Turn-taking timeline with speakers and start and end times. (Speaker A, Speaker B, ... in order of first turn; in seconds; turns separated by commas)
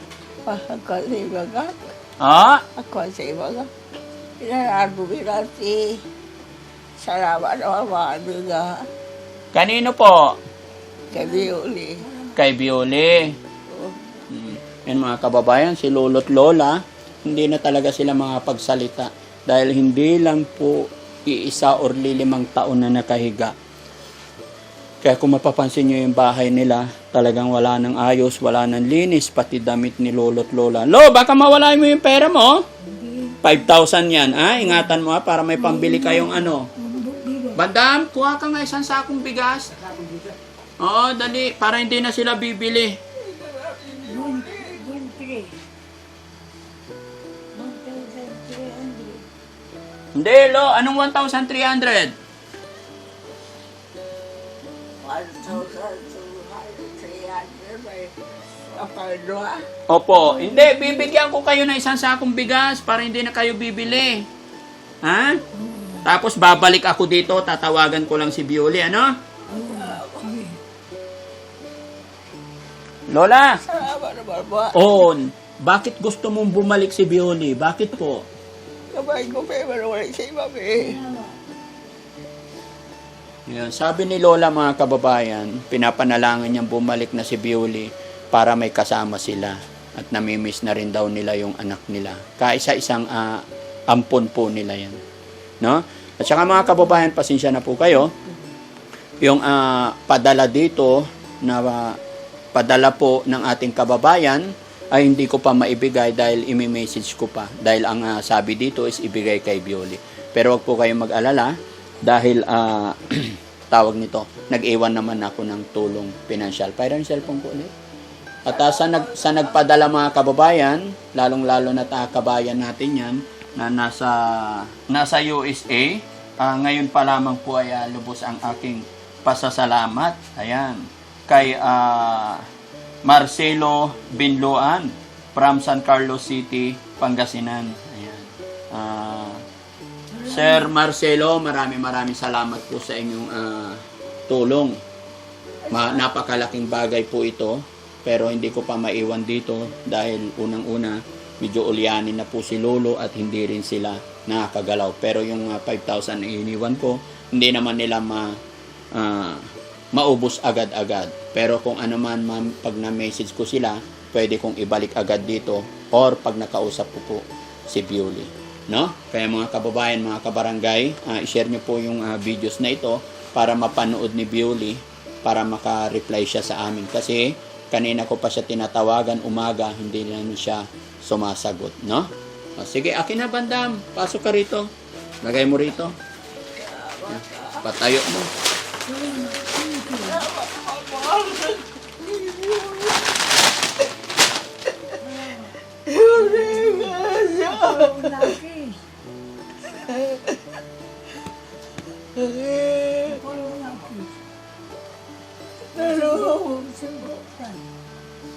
Speaker A: 0.5-1.8, Speaker B: 2.2-2.6, Speaker A: 2.8-3.7, Speaker A: 4.4-6.0, Speaker A: 7.0-8.9, Speaker B: 9.5-10.4, Speaker C: 11.1-12.4, Speaker A: 11.1-12.0, Speaker B: 12.3-13.4, Speaker A: 13.7-14.2, Speaker B: 14.3-23.6, Speaker B: 25.0-32.7, Speaker C: 32.8-33.7, Speaker B: 33.4-36.7, Speaker C: 34.6-34.9, Speaker C: 35.5-37.6, Speaker B: 37.6-39.8, Speaker B: 40.8-43.0, Speaker A: 43.2-44.8, Speaker C: 44.0-45.6, Speaker C: 47.5-49.3, Speaker B: 50.2-52.1, Speaker A: 55.0-58.1, Speaker A: 58.7-59.6, Speaker B: 59.9-64.3, Speaker C: 60.2-61.1, Speaker B: 65.0-65.4, Speaker C: 65.5-66.0, Speaker B: 66.0-69.2, Speaker A: 69.5-70.3, Speaker C: 69.5-70.6, Speaker B: 73.1-73.6, Speaker A: 73.6-74.9, Speaker B: 74.7-78.3, Speaker A: 78.9-81.0, Speaker C: 80.8-81.4, Speaker B: 83.5-95.0, Speaker B: 95.6-98.1, Speaker B: 99.2-102.0, Speaker B: 102.5-117.7, Speaker B: 118.5-132.5, Speaker A: 118.5-119.7, Speaker B: 133.0-139.4, Speaker C: 140.1-140.7, Speaker B: 140.3-144.8, Speaker A: 145.6-146.3, Speaker B: 145.7-158.4, Speaker B: 158.9-184.7, Speaker B: 185.2-186.0, Speaker A: 186.6-187.7, Speaker B: 187.6-188.3, Speaker C: 188.8-190.3, Speaker A: 190.0-193.2, Speaker C: 195.0-195.6, Speaker A: 195.9-198.3, Speaker C: 196.1-198.8, Speaker A: 199.7-200.4, Speaker A: 202.2-203.2, Speaker C: 203.1-204.3, Speaker A: 205.7-206.6, Speaker C: 205.8-207.7